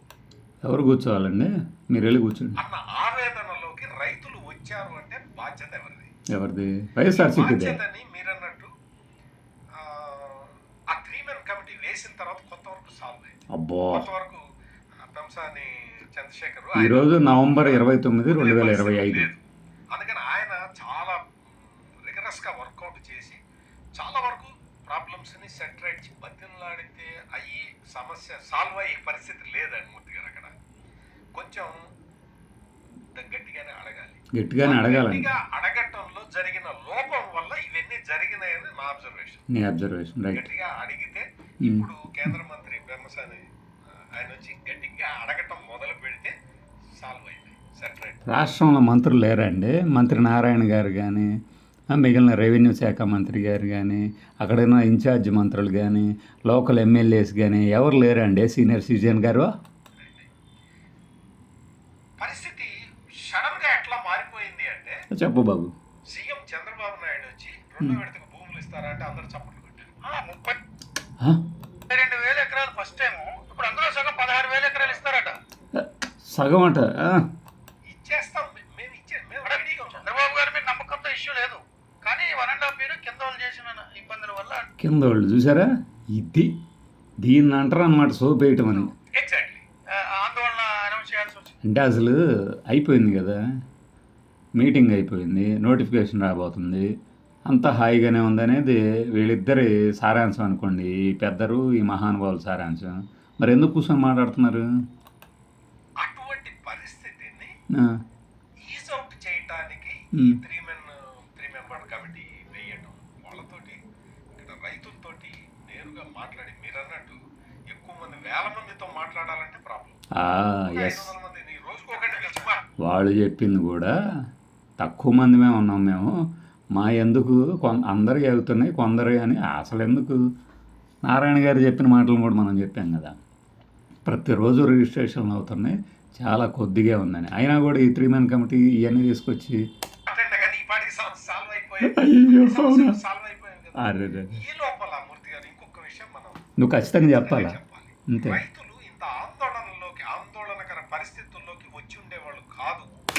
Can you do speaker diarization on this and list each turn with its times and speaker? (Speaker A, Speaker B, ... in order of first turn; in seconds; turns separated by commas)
Speaker A: 0.7-2.6, Speaker B: 2.6-6.1, Speaker A: 6.3-7.8, Speaker B: 7.1-8.7, Speaker B: 9.7-13.3, Speaker A: 13.5-14.1, Speaker B: 13.9-14.4, Speaker B: 15.0-23.4, Speaker A: 16.8-19.3, Speaker B: 23.9-30.5, Speaker B: 31.3-31.8, Speaker B: 33.1-39.4, Speaker A: 34.3-35.3, Speaker A: 39.5-40.5, Speaker B: 40.3-43.5, Speaker B: 44.0-46.3, Speaker B: 47.0-48.2, Speaker A: 48.2-51.3, Speaker A: 51.9-59.5, Speaker B: 60.0-60.3, Speaker B: 62.2-65.0, Speaker A: 65.1-65.7, Speaker B: 66.1-70.0, Speaker C: 70.0-70.6, Speaker A: 71.2-71.4, Speaker C: 71.9-75.4, Speaker A: 75.7-77.3, Speaker B: 77.9-80.1, Speaker C: 79.4-84.7, Speaker A: 84.8-86.5, Speaker A: 87.2-88.9, Speaker B: 88.9-89.6, Speaker C: 89.9-91.6, Speaker A: 91.6-93.4, Speaker A: 94.6-96.9, Speaker A: 97.5-104.7, Speaker B: 106.0-107.5, Speaker A: 107.7-108.0, Speaker B: 108.6-113.8, Speaker A: 110.1-110.4, Speaker B: 114.4-120.0, Speaker A: 120.1-121.1, Speaker B: 120.7-122.6, Speaker A: 122.8-123.9, Speaker A: 124.8-126.1, Speaker A: 126.8-130.2, Speaker A: 131.0-133.2, Speaker A: 134.0-139.6, Speaker B: 140.1-152.9, Speaker A: 141.8-143.0, Speaker A: 143.8-144.3, Speaker A: 146.6-147.6, Speaker A: 148.1-148.4